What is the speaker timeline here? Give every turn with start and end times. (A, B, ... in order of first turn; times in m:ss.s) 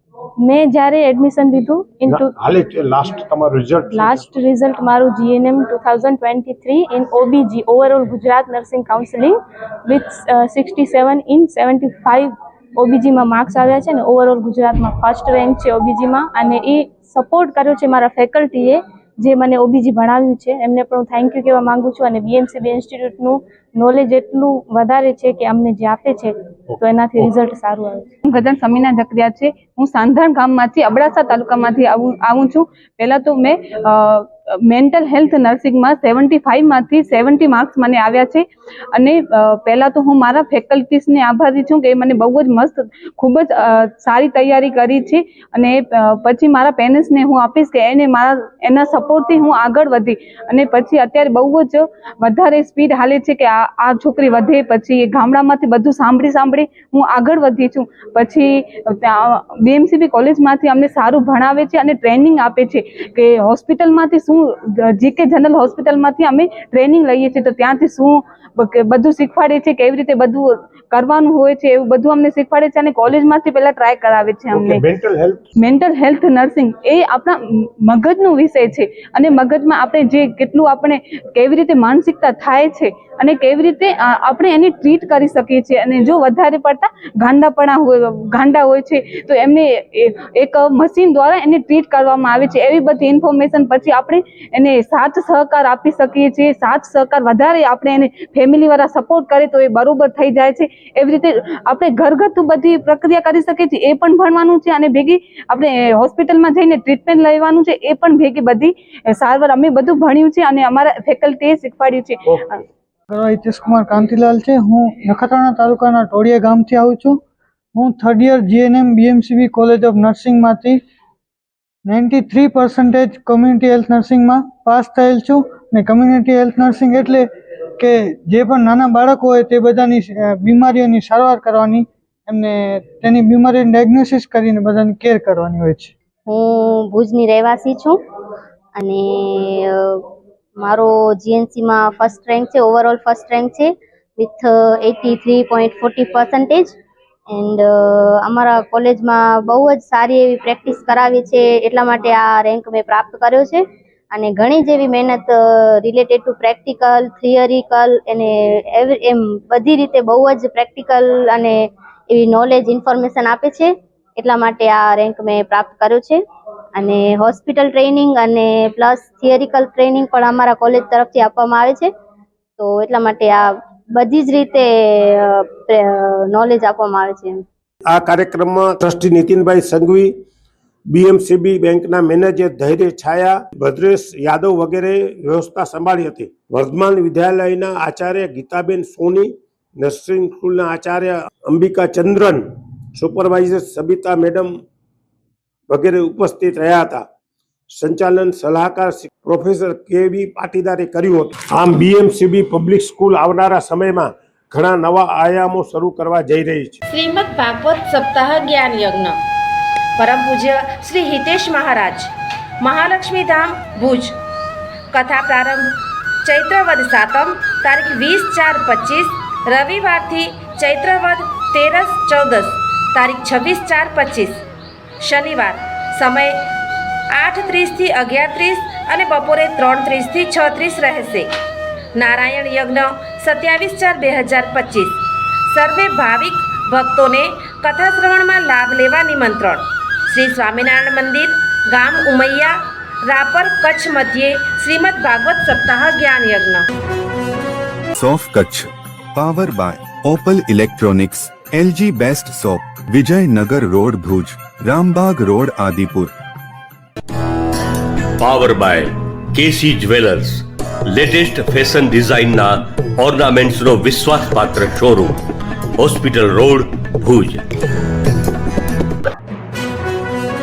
0:00.4-0:02.3 A
0:02.1-0:04.3 B
0:03.9-0:28.1 A
0:28.2-1:14.8 C
1:14.5-1:15.4 B
1:15.6-1:52.6 C
1:53.1-1:57.2 D
1:57.7-2:00.8 D
2:01.8-2:07.2 D
2:07.8-2:15.9 D
2:16.3-2:18.0 E
2:18.8-2:20.0 E
2:20.6-2:26.7 E
2:27.3-2:46.2 E
2:46.7-2:51.9 E
2:52.6-2:57.4 E
2:57.9-3:00.1 B
3:00.9-3:12.4 B
3:13.0-3:14.5 B
3:15.7-3:17.0 B
3:17.7-3:26.8 B
3:26.9-3:29.2 F
3:30.0-3:32.1 F
3:32.6-3:34.1 F
3:34.9-3:35.7 F
3:36.2-3:44.4 F
3:45.0-3:46.4 F
3:47.1-3:51.3 F
3:51.9-3:55.0 F
3:55.5-4:06.6 F
4:08.0-4:16.1 G
4:18.2-4:25.2 H
4:25.8-4:27.4 H